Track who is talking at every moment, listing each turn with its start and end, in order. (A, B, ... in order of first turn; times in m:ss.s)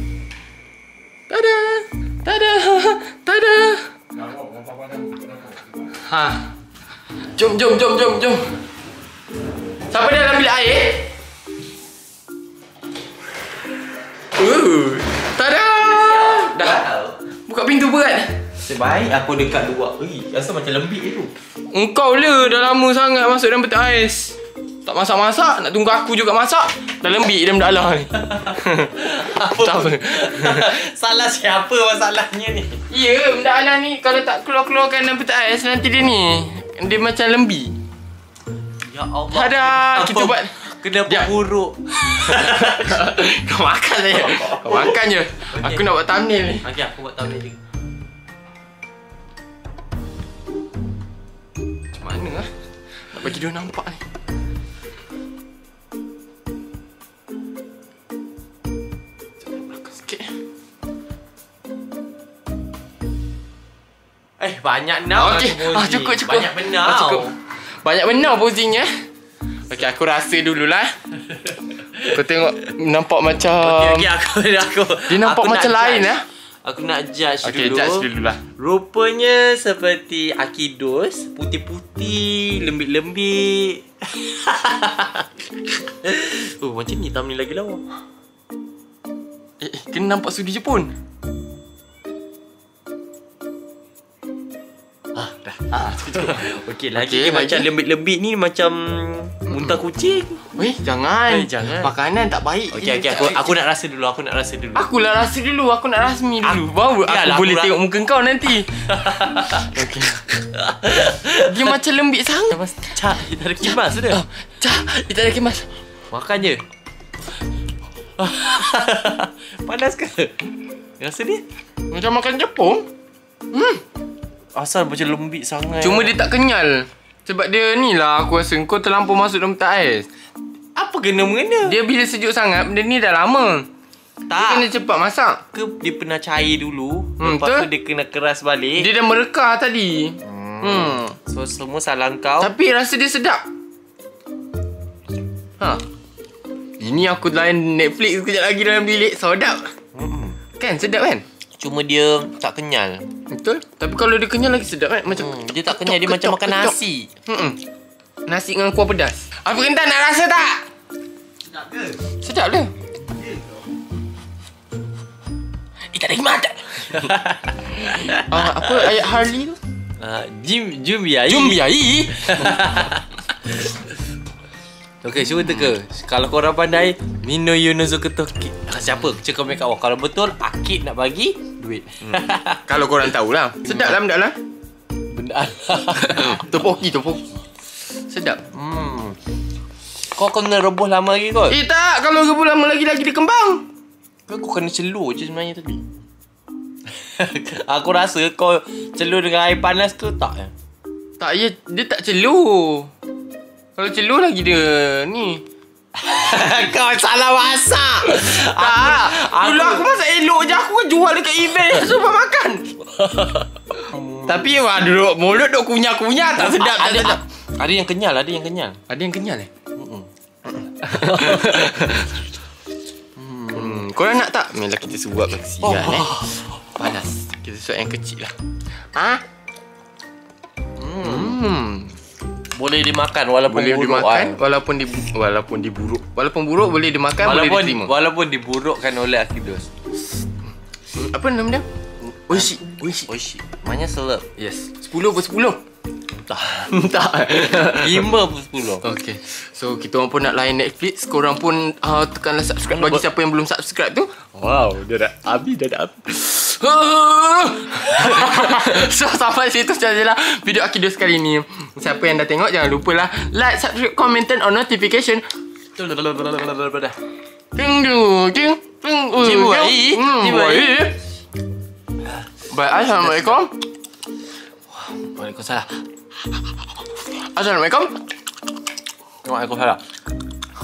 0:01.3-0:03.9 A
0:05.8-0:06.5 A
0:07.3-0:08.5 A
0:09.9-0:11.1 A
0:14.3-0:16.8 A
0:15.8-0:17.2 B
0:17.5-0:18.3 A
0:18.6-0:21.3 B
0:21.7-0:30.7 A
0:28.3-0:32.8 B
0:32.9-0:37.7 A
0:38.8-0:43.0 B
0:39.3-0:41.3 A
0:42.0-0:46.6 A
0:44.3-0:45.0 B
0:45.5-0:45.9 B
0:46.6-0:47.6 B
0:51.9-0:52.5 A
0:53.1-0:54.0 A
0:59.4-1:00.3 A
1:04.4-1:07.3 B
1:05.1-1:08.9 A
1:09.7-1:10.9 A
1:11.4-1:11.8 B
1:12.0-1:14.1 A
1:13.6-1:18.0 B
1:15.1-1:16.2 A
1:17.4-1:18.4 A
1:18.6-1:27.8 B
1:29.6-1:30.9 A
1:35.1-1:40.4 B
1:35.7-1:37.7 A
1:39.5-1:39.8 A
1:40.5-1:43.6 A
1:41.3-1:41.9 B
1:42.7-1:44.9 B
1:44.7-1:50.2 A
1:46.4-1:47.7 B
1:48.9-1:49.6 B
1:50.3-1:51.7 B
1:51.2-1:52.6 A
1:52.5-1:54.2 B
1:53.7-1:55.7 A
1:56.1-1:56.6 B
1:58.2-2:00.4 B
2:01.0-2:01.4 B
2:01.9-2:02.8 A
2:03.5-2:03.8 A
2:04.5-2:06.2 B
2:05.8-2:10.1 A
2:10.7-2:11.8 B
2:11.6-2:13.6 A
2:14.3-2:14.7 B
2:14.3-2:15.4 A
2:15.5-2:18.9 B
2:17.2-2:17.7 A
2:18.8-2:21.2 A
2:20.2-2:22.5 B
2:22.4-2:23.4 A
2:26.8-2:29.7 A
2:29.9-2:30.4 B
2:30.6-2:31.2 A
2:31.6-2:33.0 B
2:33.3-2:36.8 A
2:35.1-2:37.1 B
2:37.3-2:37.6 A
2:38.3-2:40.6 A
2:42.2-2:42.7 A
2:45.9-2:47.1 A
2:47.0-2:48.9 B
2:48.1-2:49.6 A
2:50.0-2:53.9 B
2:51.3-2:52.9 A
2:55.0-3:02.6 B
3:02.0-3:04.4 A
3:03.7-3:03.9 B
3:05.1-3:06.4 B
3:05.9-3:07.2 A
3:08.1-3:08.4 A
3:08.5-3:09.2 B
3:10.1-3:11.6 B
3:11.5-3:13.6 A
3:14.3-3:15.8 B
3:16.9-3:20.5 B
3:21.2-3:22.9 A
3:23.8-3:25.4 A
3:25.9-3:29.9 B
3:28.0-3:32.7 A
3:33.0-3:34.4 B
3:34.1-3:37.2 A
3:36.3-3:38.8 B
3:38.9-3:39.5 A
3:39.8-3:40.1 B
3:40.7-3:42.2 A
3:40.8-3:41.9 B
3:43.2-3:43.8 B
3:43.5-3:46.1 A
3:45.6-3:46.4 B
3:46.7-3:48.3 A
3:48.9-3:49.2 A
3:50.8-3:51.4 B
3:51.0-3:51.9 A
3:52.6-3:54.4 B
3:53.5-3:57.9 A
3:57.2-3:59.7 B
4:00.9-4:03.1 A
4:02.3-4:04.2 B
4:04.4-4:05.6 A
4:06.1-4:06.7 B
4:06.5-4:08.1 A
4:07.4-4:08.8 B
4:08.8-4:14.2 A
4:12.6-4:13.0 B
4:14.3-4:15.9 B
4:15.8-4:25.2 A
4:25.8-4:27.0 B
4:27.5-4:31.0 A
4:29.1-4:30.9 B
4:32.5-4:33.5 A
4:32.9-4:33.4 B
4:34.7-4:35.8 B
4:37.2-4:38.0 A
4:39.2-4:39.8 B